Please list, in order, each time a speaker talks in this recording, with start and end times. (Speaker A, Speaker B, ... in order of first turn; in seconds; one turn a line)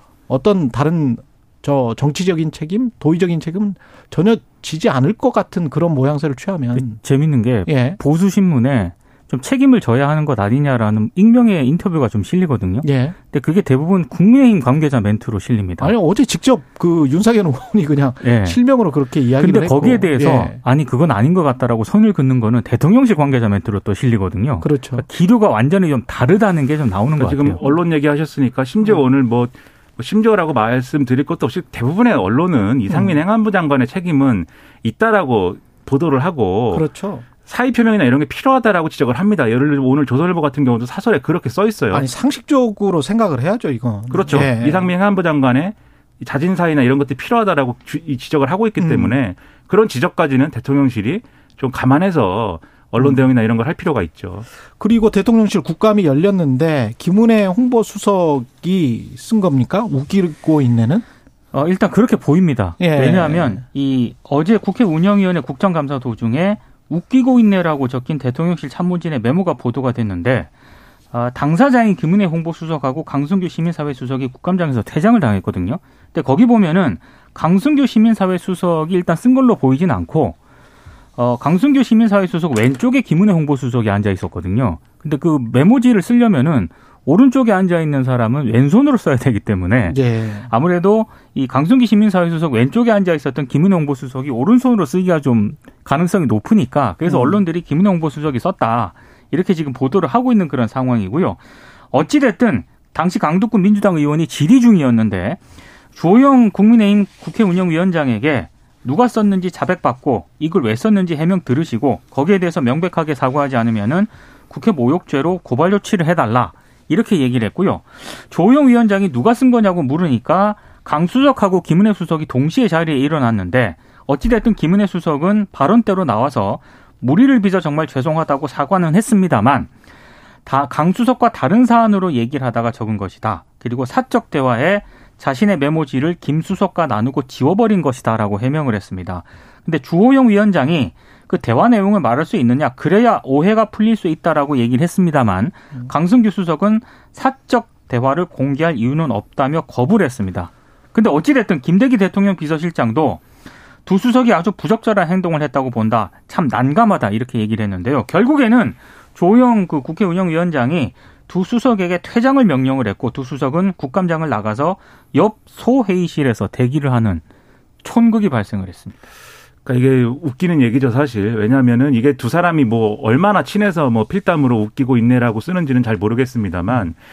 Speaker A: 0.3-7.0
Speaker B: 6.7-15.9
Speaker A: 7.7-8.0
Speaker A: 12.8-13.1
Speaker A: 15.8-20.6
Speaker B: 18.2-18.6
Speaker B: 19.4-27.6
Speaker A: 24.6-25.0
Speaker C: 27.2-36.9
Speaker A: 32.9-33.1
Speaker A: 36.7-37.2
Speaker C: 37.4-42.0
Speaker A: 41.9-44.9
Speaker C: 44.1-54.5
Speaker A: 48.8-49.1
Speaker A: 54.8-61.0
Speaker B: 61.5-70.5
Speaker A: 62.8-63.6
Speaker B: 71.1-80.4
Speaker B: 81.2-101.4
Speaker A: 89.9-90.5
Speaker A: 97.0-97.4
Speaker B: 101.9-105.4
Speaker B: 105.9-129.7
Speaker B: 130.4-153.2
Speaker B: 153.8-167.2
Speaker B: 167.8-169.0
Speaker C: 169.6-177.0